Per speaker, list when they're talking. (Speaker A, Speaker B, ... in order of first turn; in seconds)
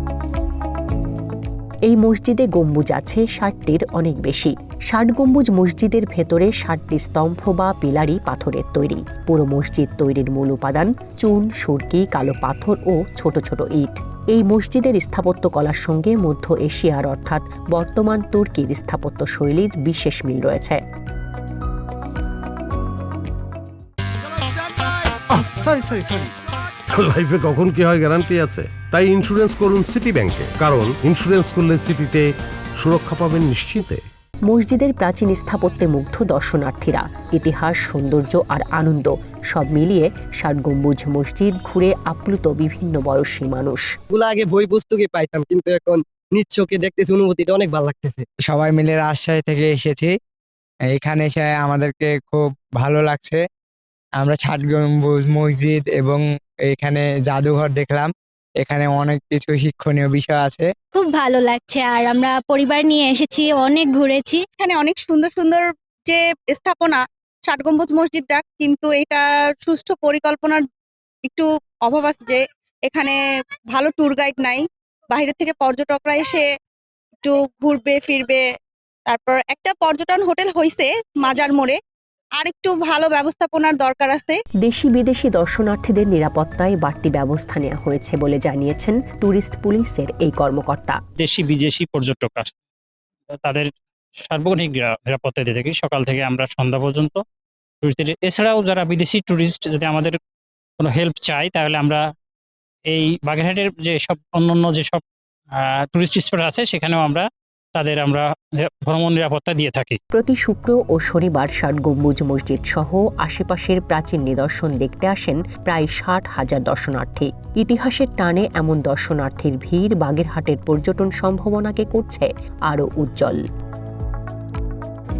Speaker A: 1.9-20.8, 34.5-43.9, 84.6-91.0, 110.1-123.4
Speaker B: 25.3-26.3, 26.9-34.0
Speaker C: 44.1-48.2
Speaker D: 48.5-50.1, 50.9-53.4, 54.2-58.1, 58.6-60.7
Speaker E: 60.9-64.4
Speaker F: 64.6-70.6, 71.3-73.2, 73.7-76.4, 77.2-78.4, 79.0-81.8, 82.4-84.4
Speaker G: 91.2-92.5, 93.3-93.7, 94.2-97.2, 97.8-100.2, 100.8-102.0, 102.9-105.0, 105.6-110.0